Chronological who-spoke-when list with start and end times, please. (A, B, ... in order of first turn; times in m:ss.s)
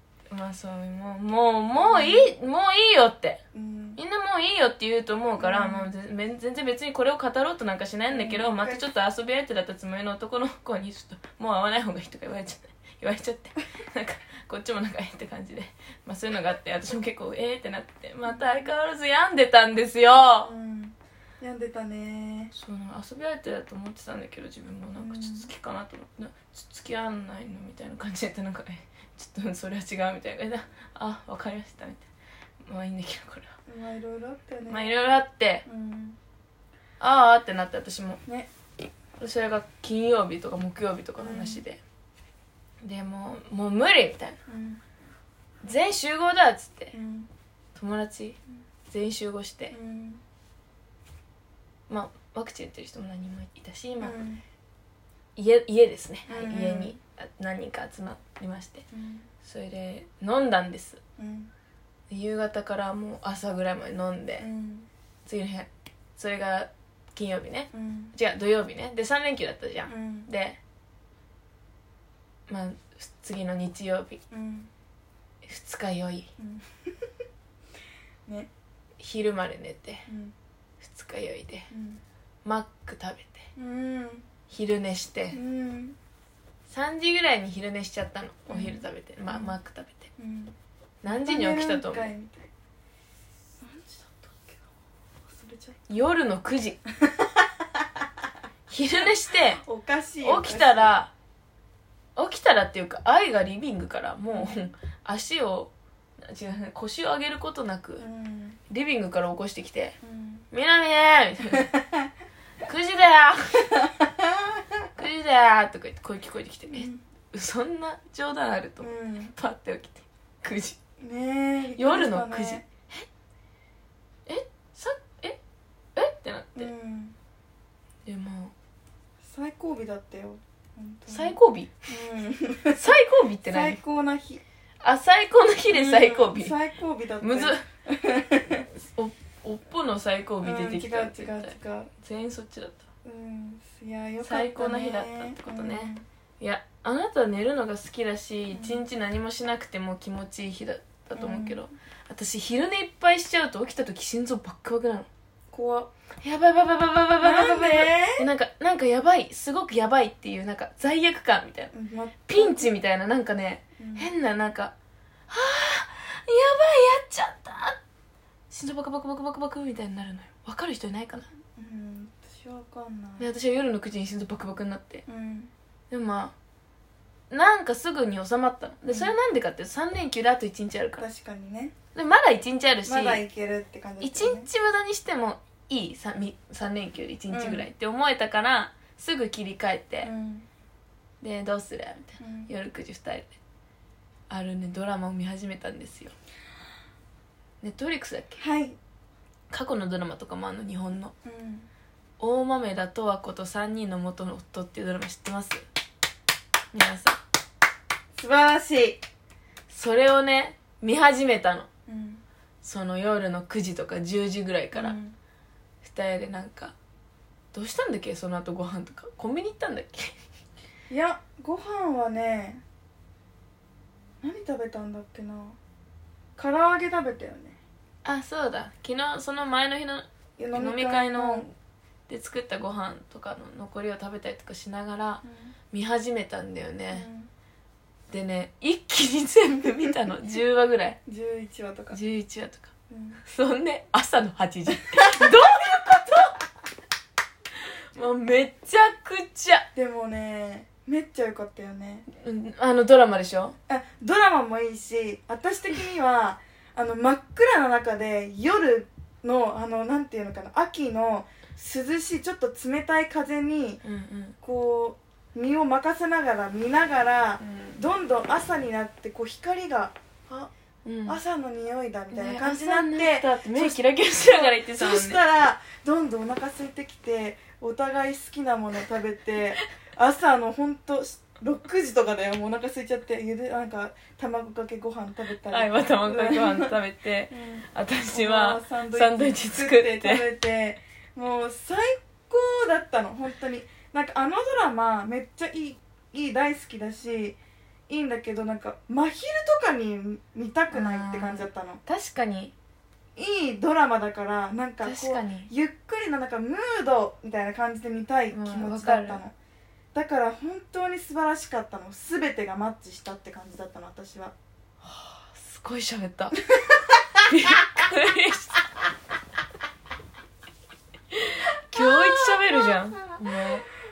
0:00.3-0:03.4 A
0:01.7-0:02.3 B
0:03.5-0:04.0 B
0:04.0-0:20.5 A
0:05.4-0:05.9 B
0:08.1-0:08.8 B
0:20.4-0:22.5 B
0:22.5-0:32.1 A
0:25.0-0:25.5 B
0:32.6-0:33.5 A
0:33.7-0:34.9 B
0:34.7-0:35.6 A
0:35.6-0:36.2 B
0:37.0-0:38.2 A
0:39.2-0:41.8 A
0:41.2-0:41.6 B
0:42.8-0:44.4 A
0:44.5-0:44.8 B
0:45.6-0:46.9 A
0:46.9-0:47.3 B
0:47.7-0:49.7 A
0:49.7-0:50.2 B
0:51.9-0:54.2 A
0:54.0-0:54.4 B
0:55.4-0:58.8 A
0:56.3-0:57.0 B
0:58.9-0:59.3 B
0:59.4-1:01.0 A
1:01.2-1:01.5 B
1:02.1-1:04.5 A
1:04.4-1:04.9 B
1:05.2-1:10.6 A
1:07.7-1:08.2 B
1:09.9-1:10.3 B
1:12.5-1:14.2 A
1:14.3-1:14.7 B
1:15.4-1:16.3 A
1:16.4-1:17.1 B
1:19.0-1:20.0 A
1:20.1-1:20.3 B
1:20.8-1:21.7 A
1:21.7-1:22.0 B
1:22.4-1:23.4 A
1:23.6-1:24.2 B
1:24.5-1:25.4 A
1:25.3-1:26.0 B
1:26.7-1:30.1 A
1:28.5-1:29.5 B
1:30.2-1:30.5 B
1:31.0-1:32.1 A
1:31.0-1:32.5 B
1:33.6-1:34.7 B
1:35.2-1:35.9 B
1:35.9-1:36.8 A
1:37.0-1:37.4 B
1:38.7-1:39.6 A
1:39.6-1:40.9 B
1:40.2-1:41.1 A
1:42.2-1:48.0 A
1:44.3-1:44.6 B
1:48.0-1:48.6 B
1:48.7-1:50.0 A
1:50.0-1:50.4 B
1:50.5-1:51.7 A
1:51.6-1:52.1 B
1:52.6-1:53.9 A
1:55.0-2:00.8 A
1:56.7-1:57.0 B
1:58.8-1:59.3 B
2:01.0-2:02.6 B
2:01.8-2:03.0 A
2:04.2-2:05.4 A
2:06.0-2:06.7 A
2:06.6-2:07.2 B
2:08.0-2:08.5 A
2:09.2-2:12.9 B
2:11.1-2:11.7 A
2:12.7-2:13.8 A
2:13.4-2:14.4 B
2:14.8-2:16.6 A
2:15.7-2:18.7 B
2:17.2-2:17.6 A
2:18.7-2:22.8 A
2:20.4-2:21.9 B
2:23.0-2:26.0 B
2:24.2-2:35.1 A
2:28.5-2:28.8 B
2:31.1-2:31.6 B
2:35.5-2:35.9 B
2:36.2-2:41.7 A
2:37.2-2:38.3 B
2:41.7-2:42.7 B
2:42.3-2:44.7 A
2:43.8-2:44.1 B
2:45.3-2:47.8 A
2:48.5-2:51.3 A
2:51.6-2:53.3 B
2:53.2-2:55.0 A
2:55.1-2:55.5 B
2:55.9-2:56.3 A
2:57.3-3:01.0 A
2:58.9-2:59.2 B
3:01.0-3:01.7 B
3:01.9-3:03.2 A
3:02.8-3:04.5 B
3:04.0-3:10.1 A
3:07.3-3:07.7 B
3:10.0-3:10.4 B
3:11.2-3:13.4 A
3:12.2-3:12.5 B
3:14.3-3:16.1 A
3:17.6-3:18.4 A
3:18.4-3:18.8 B
3:19.5-3:21.1 A
3:21.2-3:21.7 B
3:22.2-3:25.6 A
3:26.7-3:27.2 A
3:28.1-3:29.0 B
3:29.7-3:31.7 A
3:31.9-3:32.2 B
3:32.6-3:35.0 A
3:34.7-3:35.2 B
3:35.8-3:36.7 A
3:37.5-3:40.1 A
3:40.9-3:42.6 B
3:44.2-3:45.6 B
3:46.4-3:47.6 B
3:48.0-3:51.5 A
3:50.4-3:51.4 B
3:52.1-3:57.1 A
3:55.2-3:55.5 B
3:56.9-3:57.3 B
3:58.1-4:01.0 A
4:01.0-4:02.0 B
4:01.9-4:02.7 A
4:02.9-4:03.2 B
4:03.2-4:06.4 A
4:07.9-4:09.7 A
4:09.7-4:12.0 B
4:12.1-4:13.5 A
4:13.7-4:23.8 B
4:23.8-4:24.3 A
4:24.4-4:29.9 B
4:27.4-4:27.8 A
4:30.3-4:31.2 A
4:31.1-4:46.8 B
4:32.1-4:35.2 A
4:45.5-4:50.3 A
4:47.3-4:57.4 B
4:57.9-5:01.8 B
5:00.7-5:02.5 A
5:03.2-5:09.3 B
5:04.8-5:05.5 A
5:08.3-5:09.2 A
5:09.9-5:14.3 B
5:14.8-5:16.4 A
5:16.4-5:17.2 B
5:17.3-5:18.6 A
5:21.1-5:23.6 A
5:21.7-5:23.2 B